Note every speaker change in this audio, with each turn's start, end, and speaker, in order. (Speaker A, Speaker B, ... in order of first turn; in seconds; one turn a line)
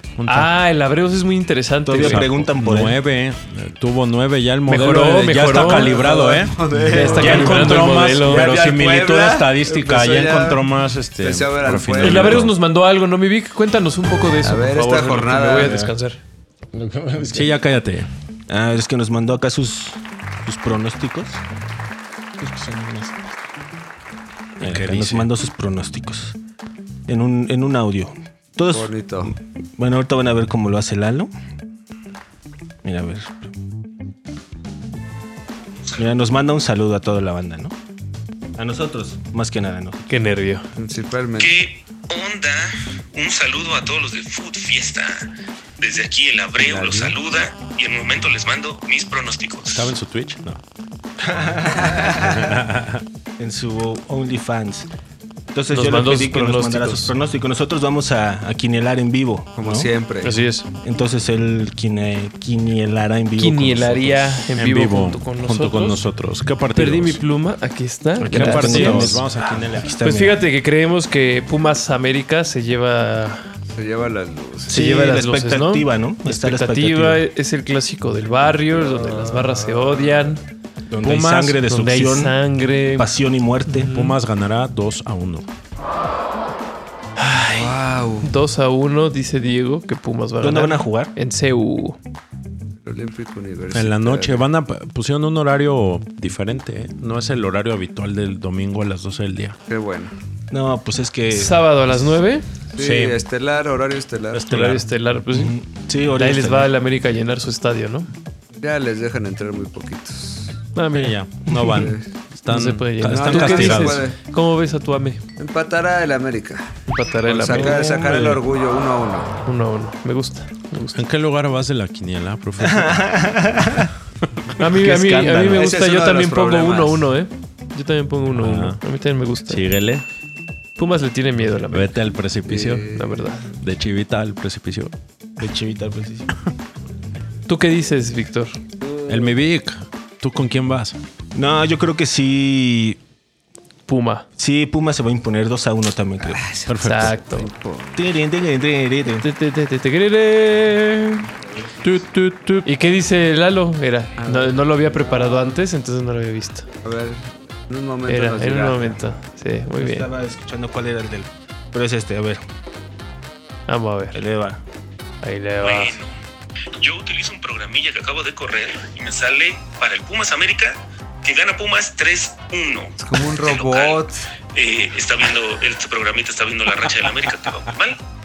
Speaker A: 0.2-0.5
Speaker B: 0.3-2.3
Speaker C: 1.9-3.0
Speaker A: 2.0-12.5
Speaker B: 4.7-6.0
Speaker D: 5.6-10.6
Speaker B: 6.9-8.5
Speaker C: 7.0-7.4
Speaker D: 11.2-12.4
Speaker B: 12.0-16.2
Speaker D: 14.4-15.9
Speaker C: 16.7-17.5
Speaker A: 17.3-18.1
Speaker C: 18.5-21.4
Speaker C: 22.4-23.3
Speaker C: 24.6-26.4
Speaker A: 24.6-25.3
Speaker C: 27.1-31.3
Speaker D: 28.7-29.4
Speaker C: 32.8-33.5
Speaker C: 35.9-37.8
Speaker C: 38.6-40.1
Speaker B: 40.1-40.7
Speaker D: 40.8-41.6
Speaker E: 41.4-45.3
Speaker E: 45.8-49.9
Speaker D: 46.6-47.2
Speaker A: 49.7-50.6
Speaker C: 51.2-52.3
Speaker D: 51.9-52.2
Speaker A: 52.0-53.0
Speaker C: 53.4-54.9
Speaker C: 55.5-59.9
Speaker B: 55.7-57.1
Speaker D: 59.6-60.4
Speaker B: 60.2-60.7
Speaker C: 60.8-64.4
Speaker B: 63.4-66.0
Speaker A: 64.5-67.2
Speaker B: 66.8-69.2
Speaker A: 68.2-69.9
Speaker C: 68.3-70.4
Speaker B: 70.0-73.5
Speaker D: 73.7-74.8
Speaker C: 74.7-77.2
Speaker B: 74.7-80.4
Speaker D: 78.9-80.2
Speaker C: 80.9-82.4
Speaker A: 81.0-81.6
Speaker B: 81.7-83.1
Speaker C: 83.0-83.9
Speaker B: 83.7-84.2
Speaker A: 83.9-85.5
Speaker B: 87.2-92.0
Speaker D: 87.4-88.3
Speaker C: 90.4-91.1
Speaker D: 92.8-94.5
Speaker A: 93.7-99.6
Speaker D: 99.7-100.1
Speaker C: 100.5-101.7
Speaker B: 101.3-102.5
Speaker D: 102.8-104.5
Speaker A: 102.8-103.2
Speaker A: 104.3-104.9
Speaker B: 104.5-105.6
Speaker C: 105.3-106.7
Speaker B: 106.2-108.1
Speaker D: 108.6-110.6
Speaker B: 110.8-111.2
Speaker A: 110.9-114.1
Speaker C: 111.5-111.8
Speaker D: 111.8-112.1
Speaker B: 112.5-115.2
Speaker D: 113.1-114.2
Speaker D: 115.4-119.4
Speaker B: 116.9-117.8
Speaker C: 117.5-118.4
Speaker B: 119.5-121.0
Speaker A: 120.9-123.2
Speaker C: 122.6-123.9
Speaker B: 124.6-129.6
Speaker C: 124.6-125.7
Speaker D: 125.5-127.1
Speaker A: 128.4-128.8
Speaker A: 129.5-130.0
Speaker B: 130.8-132.0
Speaker A: 131.7-132.9
Speaker D: 132.5-133.3
Speaker B: 132.5-133.5
Speaker A: 133.5-134.9
Speaker C: 135.4-136.3
Speaker B: 137.5-138.6
Speaker D: 138.8-139.3
Speaker A: 139.1-141.0
Speaker C: 141.3-143.0
Speaker B: 143.9-144.3
Speaker C: 144.4-146.4
Speaker D: 146.2-148.1
Speaker A: 146.7-147.2
Speaker B: 146.8-147.5
Speaker C: 147.9-149.2
Speaker B: 149.1-151.3
Speaker A: 151.8-152.7
Speaker B: 152.6-156.7
Speaker D: 154.2-155.2
Speaker D: 156.8-159.1
Speaker B: 158.1-160.1
Speaker C: 159.8-162.4
Speaker B: 163.7-164.2
Speaker C: 164.1-164.6
Speaker B: 165.2-166.0
Speaker E: 165.6-166.2
Speaker E: 166.8-178.0
Speaker D: 173.0-174.2